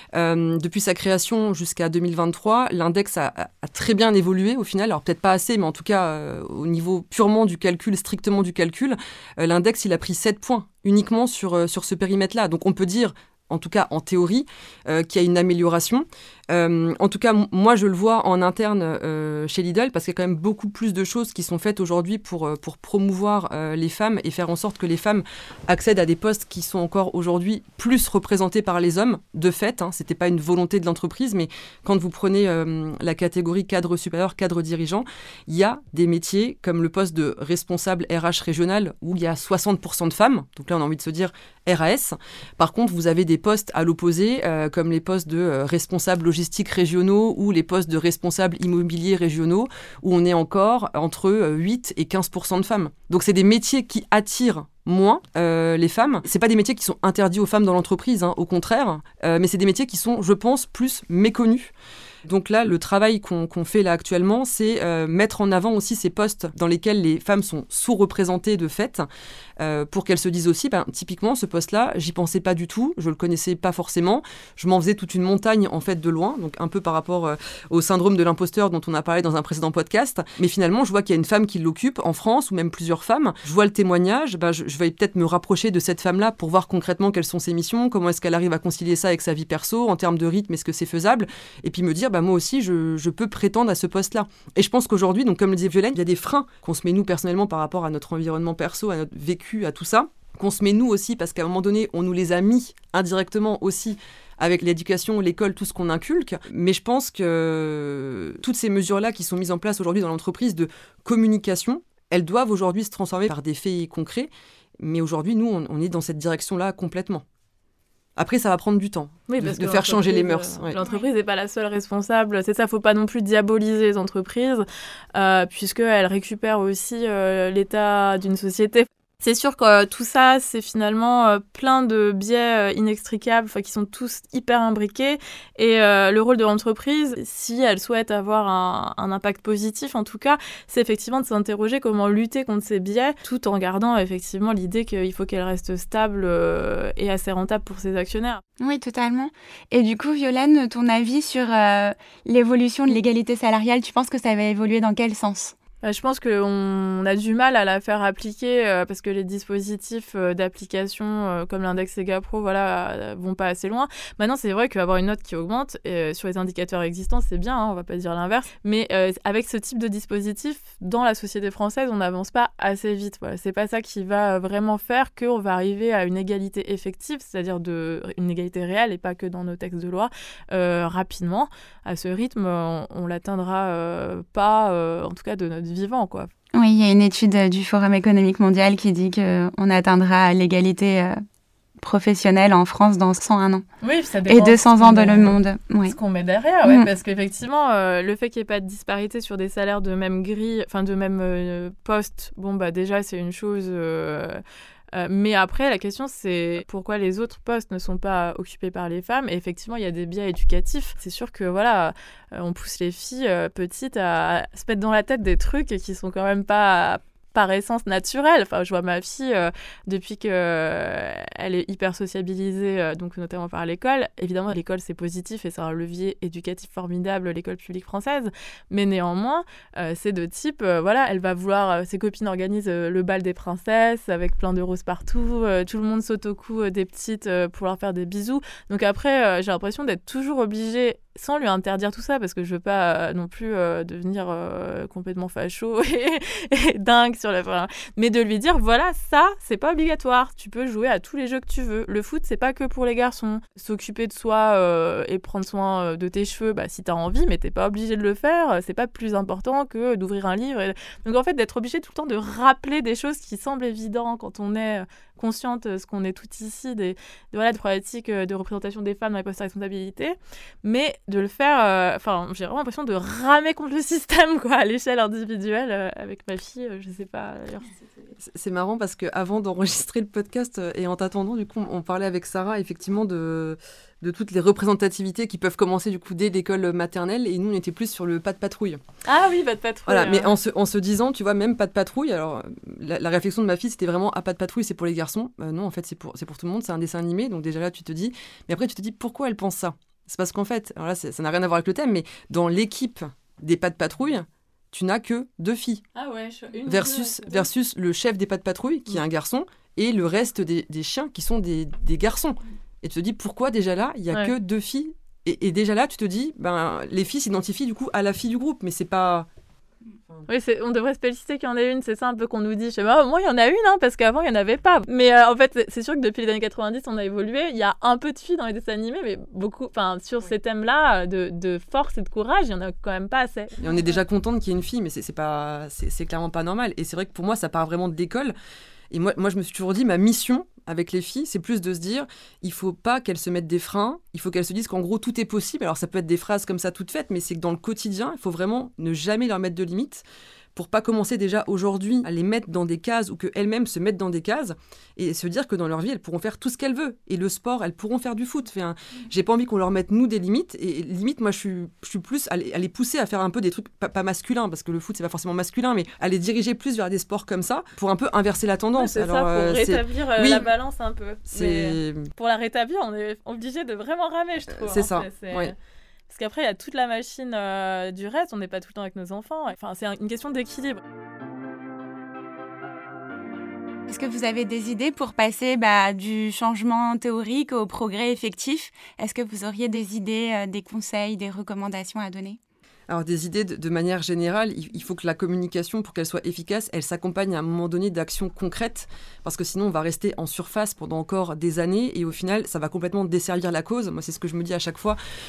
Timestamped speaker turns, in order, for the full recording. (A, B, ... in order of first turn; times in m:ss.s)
0:00.1-1:01.7 A
1:02.2-1:09.1 A
1:09.6-1:57.2 A
1:58.2-2:00.8 A
1:59.3-2:28.4 B
2:28.6-2:35.6 C
2:35.8-3:06.3 B
3:06.5-3:11.2 C
3:11.8-3:13.6 C
3:13.8-3:24.4 B
3:14.3-3:16.0 C
3:16.6-3:16.9 C
3:24.9-4:37.8 B
4:38.2-4:48.8 A
4:49.1-4:50.3 B
4:49.9-5:05.8 A
5:06.0-5:07.5 B
5:06.7-5:19.3 A
5:20.3-5:33.8 B
5:33.6-5:38.4 A
5:38.9-5:50.0 A
5:50.6-6:10.5 A
6:08.8-6:15.6 B
6:11.3-6:12.1 A
6:14.5-6:15.5 A
6:16.1-6:20.8 B
6:23.9-6:32.4 C
6:32.9-6:45.0 A